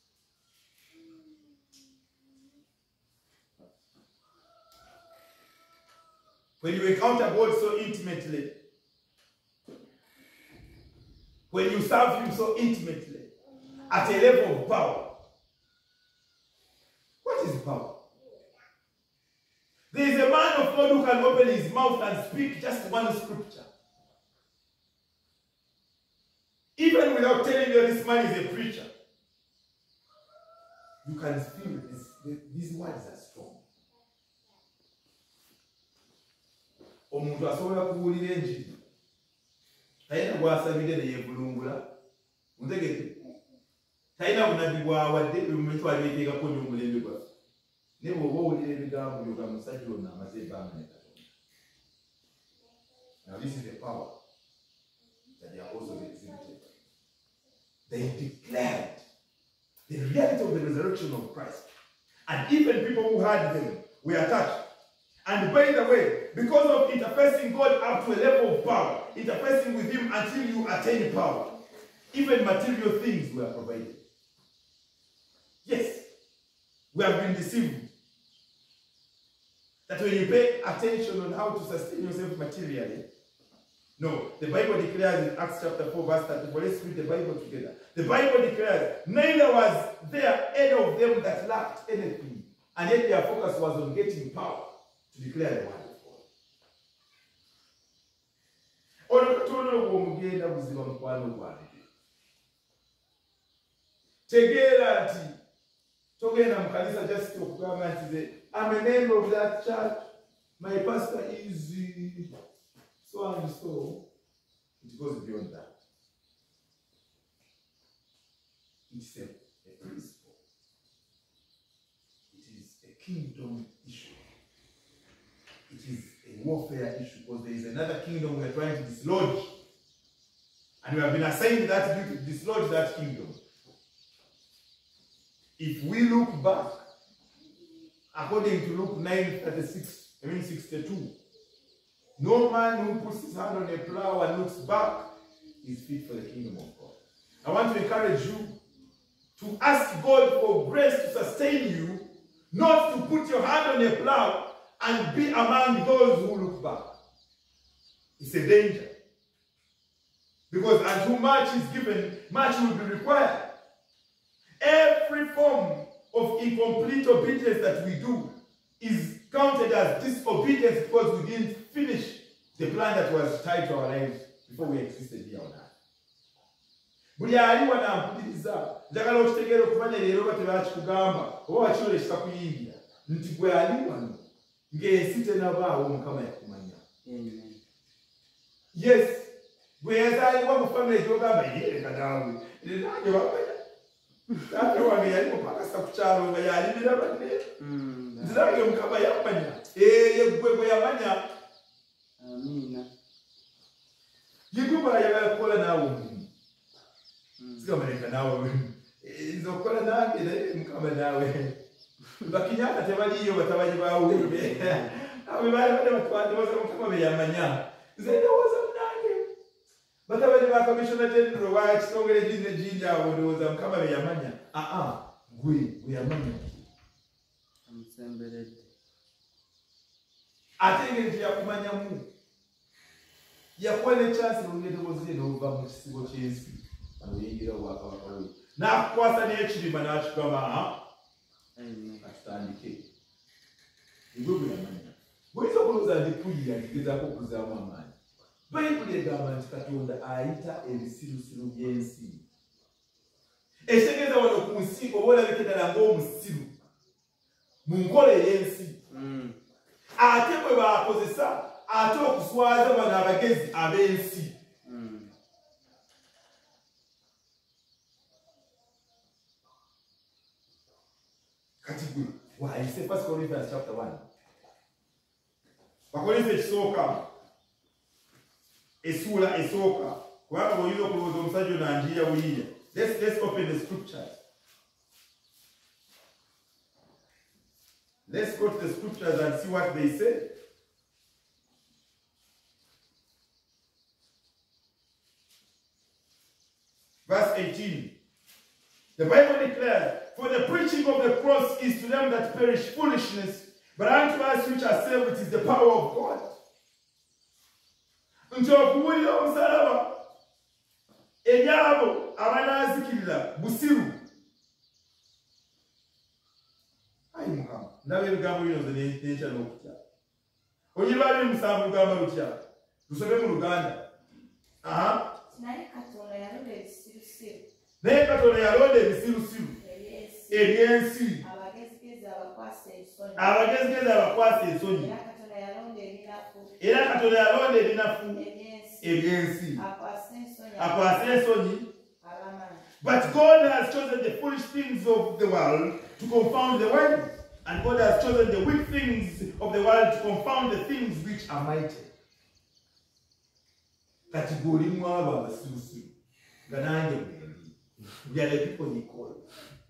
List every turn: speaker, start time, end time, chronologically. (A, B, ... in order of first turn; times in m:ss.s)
0:06.6-0:08.5 A
0:11.5-0:13.3 A
0:13.9-0:15.2 A
0:17.2-0:18.0 A
0:19.9-0:23.7 A
0:26.8-0:28.9 A
0:31.0-0:33.6 A
0:37.1-0:38.8 A
0:40.1-0:41.9 A
0:42.6-0:43.2 A
0:44.2-0:47.3 A
0:48.0-0:51.3 A
0:53.2-0:54.1 A
0:55.4-0:56.7 A
0:57.9-0:59.0 A
0:59.9-1:01.7 A
1:02.3-1:04.6 A
1:05.3-1:11.5 A
1:12.1-1:14.0 A
1:15.6-1:16.1 A
1:16.9-1:17.9 A
1:19.9-1:23.0 A
1:24.0-1:36.2 A
1:39.1-1:41.9 A
1:44.3-1:45.4 A
1:46.2-1:50.1 A
1:50.6-1:52.3 A
1:53.0-1:54.0 A
1:54.8-1:55.7 A
1:58.9-2:00.3 A
2:02.3-2:04.2 A
2:05.7-2:09.5 A
2:10.8-2:13.4 A
2:15.6-2:16.8 A
2:18.1-2:21.1 A
2:22.2-2:25.1 A
2:25.6-2:28.6 A
2:29.4-2:37.0 A
2:38.2-2:38.9 A
2:40.5-2:43.5 A
2:44.6-2:55.7 A
2:57.2-3:06.8 A
3:07.0-3:07.6 B
3:08.7-3:13.6 A
3:14.4-3:17.5 A
3:17.6-3:18.5 B
3:18.2-3:21.3 A
3:22.2-3:22.9 B
3:24.5-3:26.3 A
3:27.4-3:27.7 B
3:27.6-3:31.6 A
3:32.2-3:39.3 A
3:34.1-3:34.9 B
3:40.1-3:46.7 A
3:47.7-3:48.7 B
3:50.6-3:52.1 A
3:53.6-4:00.8 A
4:01.6-4:02.0 B
4:02.0-4:02.9 A
4:04.1-4:07.9 A
4:08.5-4:12.2 A
4:13.7-4:16.5 A
4:17.6-4:18.8 A
4:18.9-4:19.4 B
4:20.0-4:24.4 A
4:24.6-4:25.1 B
4:31.6-4:34.0 A
4:35.9-4:37.1 A
4:38.8-4:44.2 A
4:48.1-4:50.3 A
4:57.1-4:57.9 A
4:59.0-5:06.3 A
5:08.3-5:10.0 A
5:11.2-5:14.0 A
5:17.1-5:19.8 A
5:20.7-5:23.8 A
5:24.6-5:25.0 A
5:25.3-5:27.4 C
5:27.8-5:29.6 A
5:29.6-5:30.5 C
5:30.3-5:31.2 A
5:31.2-5:33.5 C
5:33.2-5:34.9 A
5:34.8-5:36.6 C
5:36.6-5:38.2 A
5:38.1-5:39.0 C
5:38.8-5:39.6 A
5:39.6-5:41.2 C
5:40.6-5:41.7 A
5:42.0-5:42.6 C
5:42.8-5:51.9 A
5:54.1-5:55.9 A
5:56.5-5:59.3 A